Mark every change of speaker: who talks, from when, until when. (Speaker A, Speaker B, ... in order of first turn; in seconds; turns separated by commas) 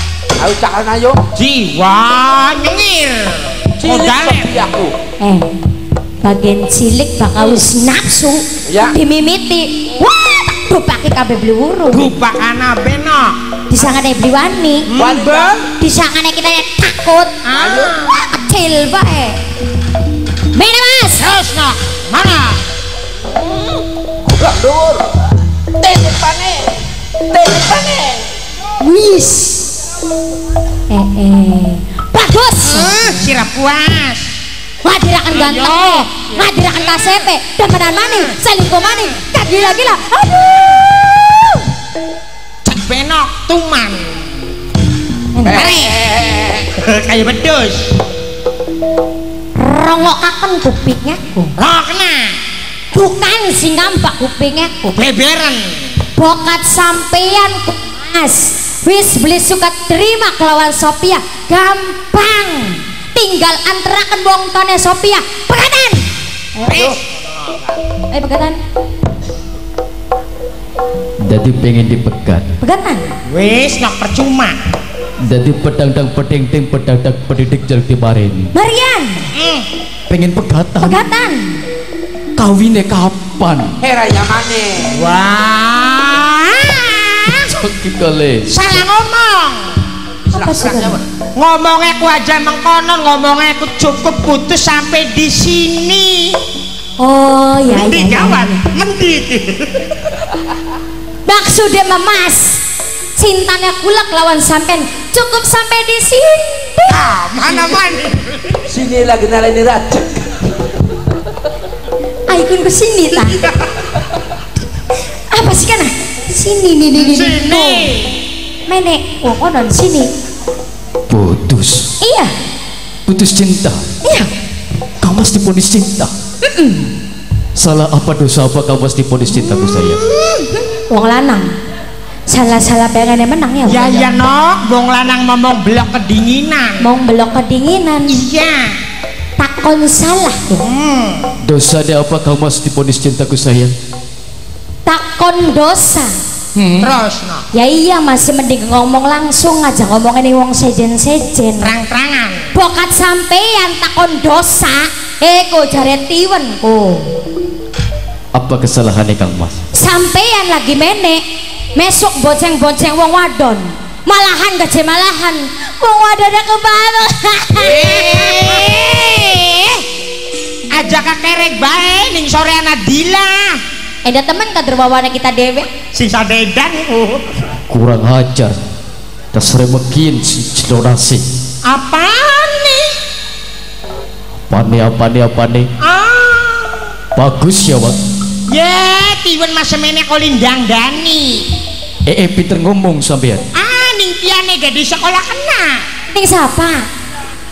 Speaker A: 0.4-1.2, Speaker B: 1.4-4.5, Speaker A: 3.8-4.9, Speaker C: 5.2-5.5, Speaker C: 6.2-12.1, Speaker A: 8.7-9.0, Speaker B: 11.9-13.3, Speaker C: 13.7-14.9, Speaker B: 14.9-15.5, Speaker A: 15.0-15.7, Speaker C: 15.8-17.4, Speaker B: 17.4-18.1, Speaker A: 17.6-17.9, Speaker C: 18.0-19.4, Speaker C: 20.5-21.3, Speaker B: 21.2-22.6, Speaker A: 23.3-25.2, Speaker A: 25.8-26.8, Speaker A: 27.3-28.2, Speaker C: 28.8-29.7, Speaker C: 30.9-33.3, Speaker B: 32.6-34.3, Speaker C: 34.8-40.7, Speaker B: 35.3-37.2, Speaker B: 42.6-44.2, Speaker C: 45.3-45.7, Speaker A: 45.5-46.7, Speaker B: 45.5-46.0, Speaker B: 46.7-47.9, Speaker C: 49.6-51.5, Speaker B: 51.6-52.4, Speaker C: 52.9-55.0, Speaker B: 54.9-55.9, Speaker C: 56.1-66.0, Speaker B: 66.7-67.8, Speaker C: 68.1-68.6, Speaker D: 71.2-72.5, Speaker C: 72.6-73.0, Speaker B: 73.3-74.5, Speaker D: 75.3-78.5, Speaker C: 78.5-79.3, Speaker B: 79.3-79.7, Speaker D: 80.1-81.0, Speaker C: 80.8-81.5, Speaker D: 82.4-83.7, Speaker A: 83.8-85.0, Speaker B: 85.0-87.6, Speaker D: 87.5-88.5, Speaker B: 88.5-89.7, Speaker A: 90.2-91.1, Speaker C: 90.3-91.0, Speaker B: 91.3-96.4, Speaker C: 97.0-98.6, Speaker B: 97.7-100.0, Speaker C: 101.2-102.6, Speaker C: 103.2-107.8, Speaker B: 106.9-108.6, Speaker A: 108.7-110.5, Speaker C: 112.3-113.5, Speaker C: 115.3-117.9, Speaker B: 117.0-118.1, Speaker C: 118.7-120.1, Speaker D: 121.1-121.9, Speaker C: 122.0-122.3, Speaker D: 123.1-123.8, Speaker C: 124.0-124.3, Speaker D: 125.0-126.1, Speaker C: 126.4-126.9, Speaker D: 127.5-130.0, Speaker C: 129.3-131.5, Speaker C: 132.3-134.2, Speaker B: 133.7-136.8, Speaker C: 136.8-138.1, Speaker B: 138.1-138.7, Speaker C: 139.4-140.6, Speaker B: 140.6-141.3, Speaker D: 141.4-143.7, Speaker C: 144.8-146.1, Speaker D: 146.6-146.9, Speaker B: 146.8-147.4, Speaker C: 147.5-151.7, Speaker B: 151.6-152.5, Speaker C: 152.5-157.1, Speaker D: 158.3-159.6, Speaker C: 159.7-161.2, Speaker C: 161.8-169.2, Speaker B: 167.6-169.8, Speaker B: 170.7-173.6, Speaker C: 174.0-175.7, Speaker B: 175.9-177.2, Speaker D: 177.7-178.5, Speaker D: 179.3-181.2, Speaker B: 181.7-183.0, Speaker D: 184.5-185.7, Speaker B: 185.8-186.9, Speaker D: 187.2-187.9, Speaker B: 188.5-191.4, Speaker D: 192.1-193.4, Speaker B: 193.5-195.8, Speaker C: 196.1-196.8